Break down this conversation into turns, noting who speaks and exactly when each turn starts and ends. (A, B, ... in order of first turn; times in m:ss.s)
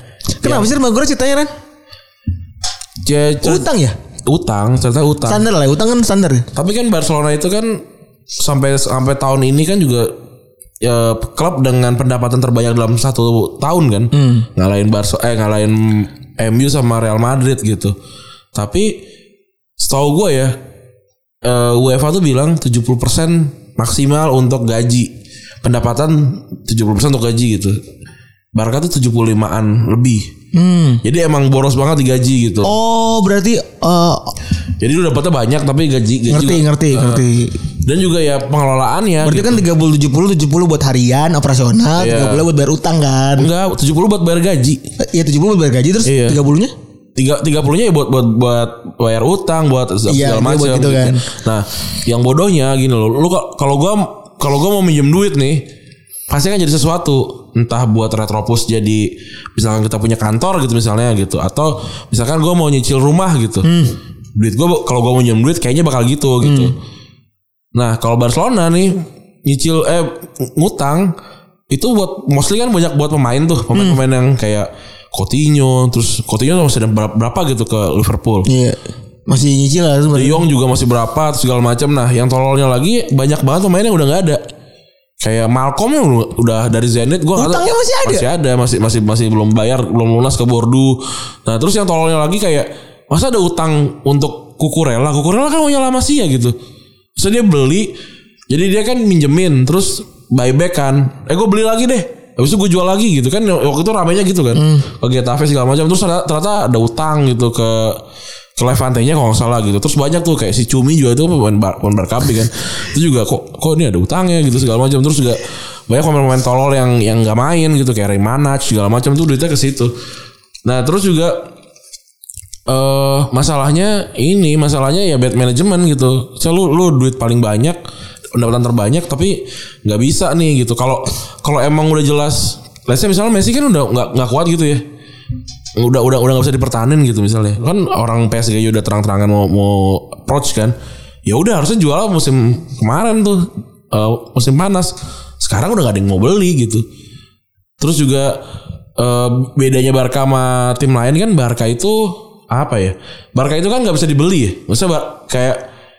0:00.4-0:01.5 A
0:00.4-0:00.7 B
0:03.0-0:03.7 B
0:03.4-0:04.0 A
0:04.2-0:05.5 B
0:05.2-0:06.5 A
0:06.5-0:07.8 B
0:08.4-0:10.2 B
0:10.8-0:18.0 B
0:14.1-0:14.5 A
0:18.5-0:19.0 B
0:19.8-0:20.6 B
0:21.4-0:27.8 B
0:28.5-0:30.3 B
0:30.5-0:31.0 A
0:31.0-0:32.7 B
0:32.6-0:34.3 A
0:34.8-0:37.2 B
0:36.3-0:37.6 A
0:37.8-0:39.6 B
0:39.2-0:43.5 A
0:42.0-0:42.4 B
0:43.4-0:44.8 B
0:45.0-0:46.7 A
0:46.0-0:46.4 B
0:47.2-0:55.7 B
0:50.1-0:51.3 A
0:56.3-1:03.7 B
1:03.6-1:04.0 A
1:04.4-1:06.7 B
1:06.4-1:06.7 A
1:07.7-1:11.1 B
1:11.7-1:18.5 B
1:13.7-1:14.0 A
1:18.4-1:20.4 A
1:20.1-1:24.4 B
1:25.2-1:36.6 B
1:27.4-1:28.2 A
1:37.2-1:38.0 B
1:38.5-1:48.0 B
1:44.5-1:44.9 A
1:48.6-1:59.9 B
2:00.6-2:01.4 B
2:02.7-2:07.8 B
2:08.3-2:14.8 B
2:15.8-2:26.8 B
2:27.8-2:28.4 B
2:29.0-2:35.6 B